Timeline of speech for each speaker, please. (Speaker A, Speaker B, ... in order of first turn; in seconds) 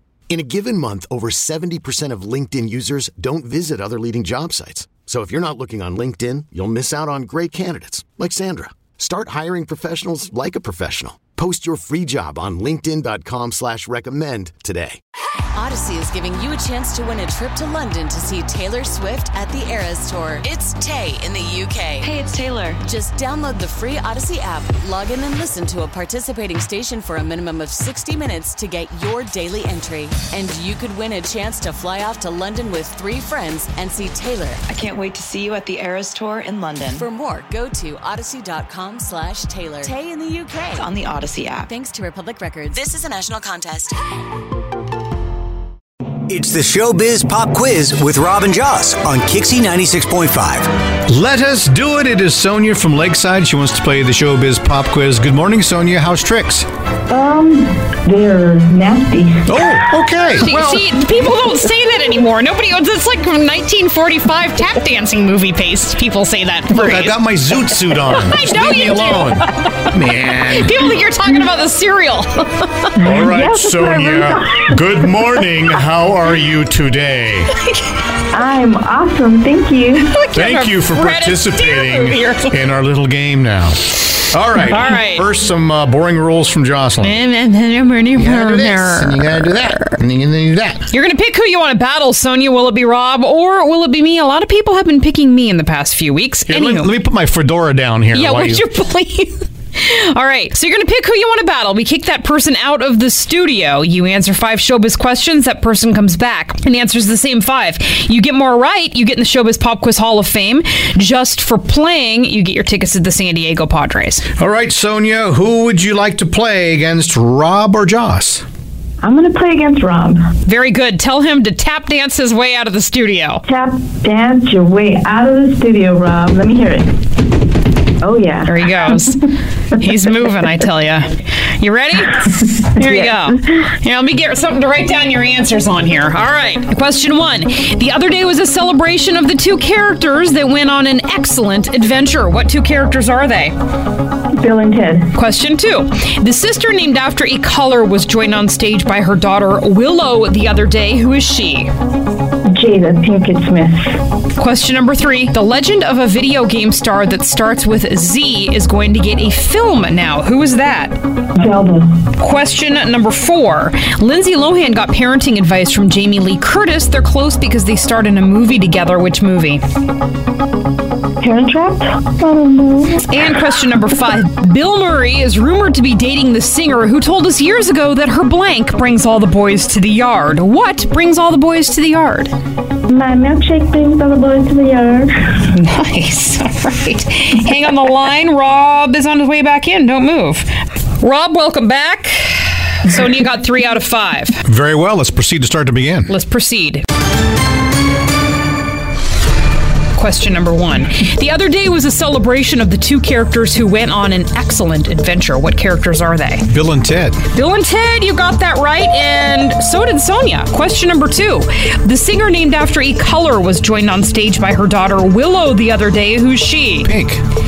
Speaker A: 0.3-15.0
Speaker B: 15.6-22.1, 22.8-34.6, 36.9-40.9, 41.6-44.0
Speaker C: 22.0-22.8, 34.7-37.1, 40.8-41.7
Speaker D: 46.3-50.8
Speaker E: 51.1-56.7, 59.5-60.8, 66.7-70.8, 73.0-77.5, 80.3-87.2, 88.2-90.9, 96.5-98.6, 114.4-118.4, 194.5-196.1, 206.5-207.2, 216.8-217.2
Speaker F: 57.1-59.8, 73.0-75.2, 78.3-80.2, 119.0-120.3, 123.5-126.9, 128.0-129.0, 132.8-133.1, 144.4-145.1, 152.5-153.9, 161.4-161.9, 171.2-173.0, 182.9-185.4
Speaker G: 60.4-73.0, 80.1-82.6, 84.7-85.3, 87.0-90.0, 90.9-97.0, 98.1-114.2, 120.5-123.4, 128.5-143.5, 145.1-151.7, 154.4-161.0, 162.2-169.6, 173.0-182.3, 185.5-190.5, 191.0-194.4, 196.1-196.8, 199.9-206.5, 207.3-216.9